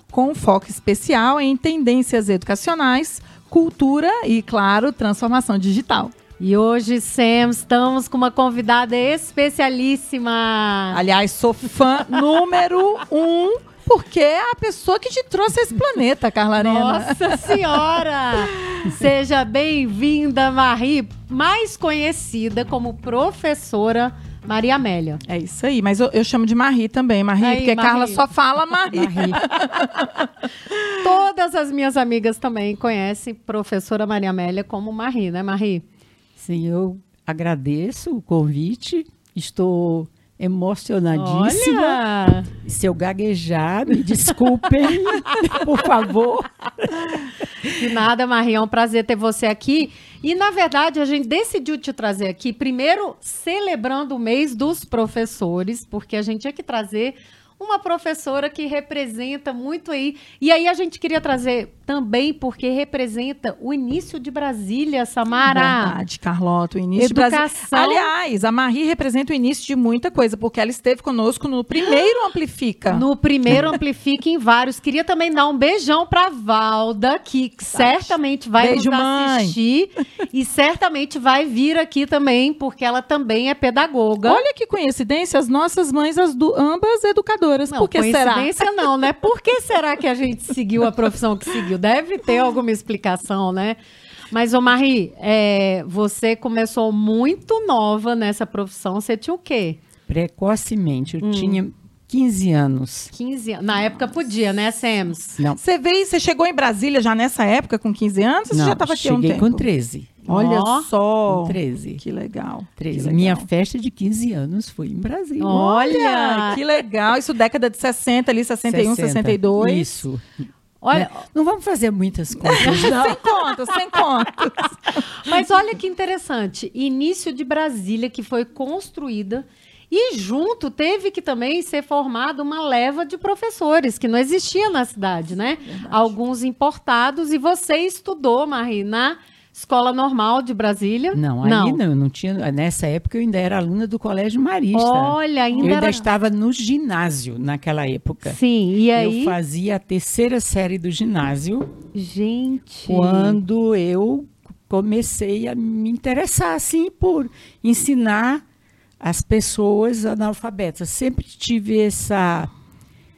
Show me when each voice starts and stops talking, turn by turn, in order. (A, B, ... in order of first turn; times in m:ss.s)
0:00.1-0:06.1 A
0:06.4-0:11.0 B
0:10.9-0:17.8 A
0:16.6-0:25.2 B
0:18.6-0:19.0 A
0:25.3-0:30.8 A
0:27.4-0:28.3 B
0:28.9-0:29.5 C
0:30.8-0:35.8 B
0:36.4-0:47.8 C
0:41.1-0:42.5 B
0:45.0-0:45.6 B
0:47.6-1:06.0 B
1:05.4-1:13.1 A
1:07.0-1:08.1 B
1:11.8-1:12.2 B
1:12.9-1:24.4 B
1:17.7-1:19.6 A
1:24.2-1:28.7 A
1:27.7-1:33.8 B
1:34.3-1:39.8 B
1:40.1-1:43.1 C
1:41.2-1:41.6 B
1:43.1-1:45.4 B
1:45.6-1:49.6 A
1:48.5-1:50.2 C
1:50.3-1:50.9 B
1:50.3-1:53.5 A
1:51.3-1:52.0 C
1:52.8-1:55.8 C
1:55.4-1:56.6 B
1:55.5-2:00.0 A
1:58.6-2:00.3 C
2:00.8-2:01.2 B
2:00.9-2:03.3 C
2:02.4-2:05.0 A
2:02.6-2:03.4 B
2:05.1-2:21.8 B
2:15.6-2:16.1 A
2:21.1-2:28.4 C
2:24.7-2:26.0 B
2:25.5-2:26.0 A
2:28.2-2:29.4 B
2:29.0-2:31.7 C
2:31.9-2:33.0 B
2:32.8-2:38.4 C
2:33.0-2:33.4 A
2:39.0-2:42.5 C